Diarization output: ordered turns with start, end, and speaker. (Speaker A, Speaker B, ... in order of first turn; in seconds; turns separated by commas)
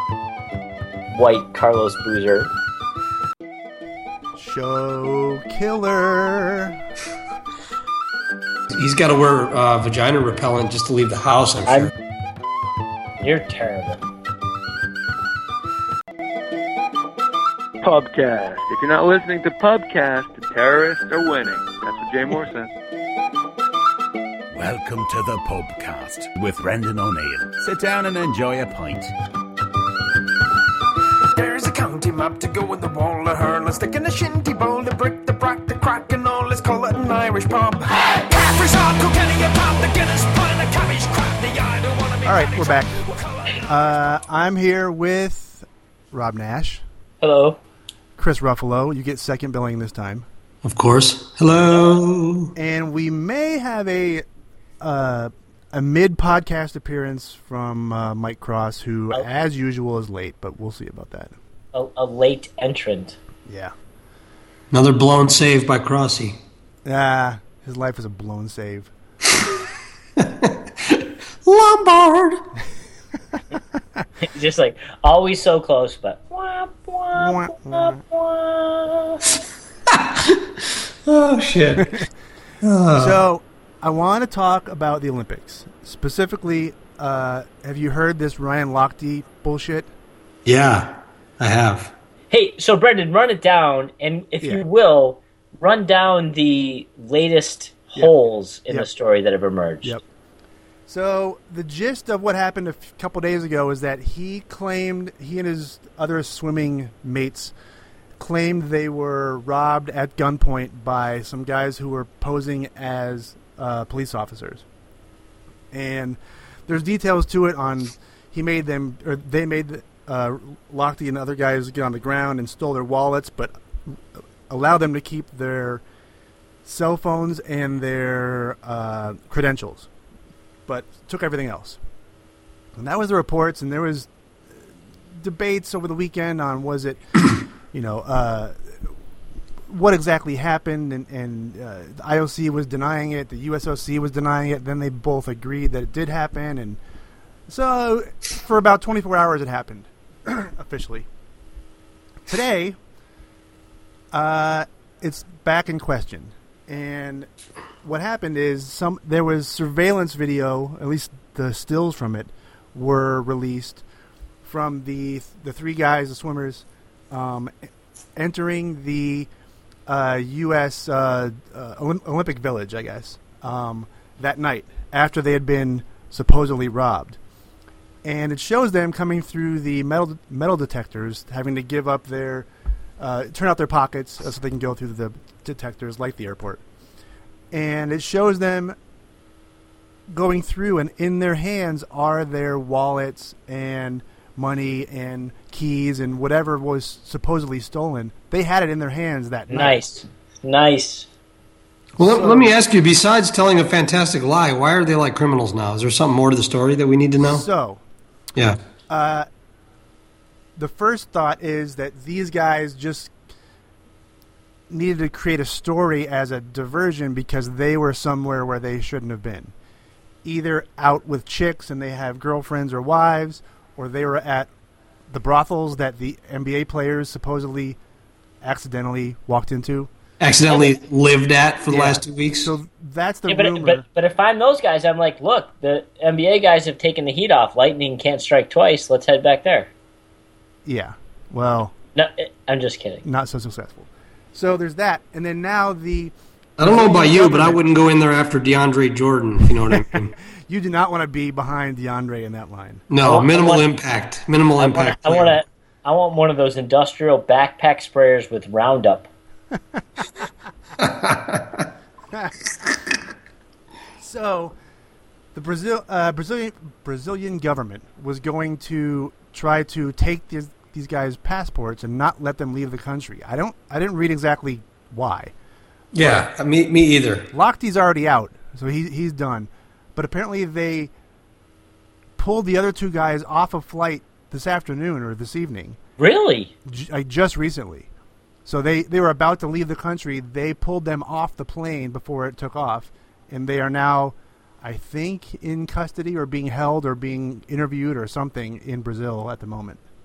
Speaker A: 1.1-2.5, Speaker B: 4.3-6.8, Speaker C: 8.7-11.9, Speaker A: 13.2-14.0, Speaker D: 17.8-22.7, Speaker E: 24.5-29.1, Speaker F: 31.4-43.7, Speaker B: 42.2-43.0, Speaker B: 43.6-46.8, Speaker A: 47.2-47.6, Speaker B: 48.2-50.2, Speaker C: 50.6-52.5, Speaker B: 52.5-54.2, Speaker B: 54.8-61.4, Speaker A: 61.7-63.2, Speaker B: 63.5-63.7, Speaker C: 64.7-66.4, Speaker B: 66.8-68.9, Speaker C: 70.2-72.4, Speaker A: 74.2-79.2, Speaker B: 77.1-78.0, Speaker C: 79.9-80.4, Speaker C: 81.0-82.0, Speaker B: 81.8-82.0, Speaker C: 82.6-83.2, Speaker B: 83.0-89.9, Speaker C: 90.4-91.9, Speaker A: 92.3-100.0, Speaker B: 100.9-107.5, Speaker B: 108.2-114.6, Speaker B: 115.7-125.8, Speaker B: 126.6-129.9, Speaker B: 130.7-131.8, Speaker B: 132.8-134.1, Speaker B: 135.1-138.5, Speaker B: 139.7-146.8, Speaker B: 147.5-151.1, Speaker B: 152.3-152.8, Speaker B: 154.1-157.3, Speaker B: 157.8-163.8, Speaker B: 164.4-169.3, Speaker B: 169.9-177.2, Speaker B: 178.0-186.6, Speaker B: 187.5-188.8, Speaker B: 190.1-199.8, Speaker A: 199.5-201.1, Speaker C: 202.0-207.4, Speaker B: 202.0-202.5, Speaker B: 207.2-207.8, Speaker B: 208.9-209.2, Speaker B: 210.6-213.1, Speaker B: 214.7-219.5, Speaker B: 220.2-224.5, Speaker B: 225.1-227.8, Speaker B: 228.4-229.9, Speaker C: 230.2-232.5, Speaker B: 231.7-233.8, Speaker A: 233.3-239.7, Speaker B: 240.7-241.7, Speaker A: 241.9-243.1, Speaker B: 243.0-247.6, Speaker C: 246.6-250.2, Speaker B: 249.7-252.8, Speaker C: 252.9-255.4, Speaker A: 253.0-253.7, Speaker A: 254.6-259.1, Speaker C: 260.8-261.4, Speaker B: 264.0-264.5, Speaker B: 265.3-275.3, Speaker C: 275.9-277.3, Speaker B: 275.9-276.2, Speaker B: 277.3-280.9, Speaker B: 282.2-285.8, Speaker A: 286.0-286.5, Speaker B: 286.6-287.9, Speaker B: 288.4-299.8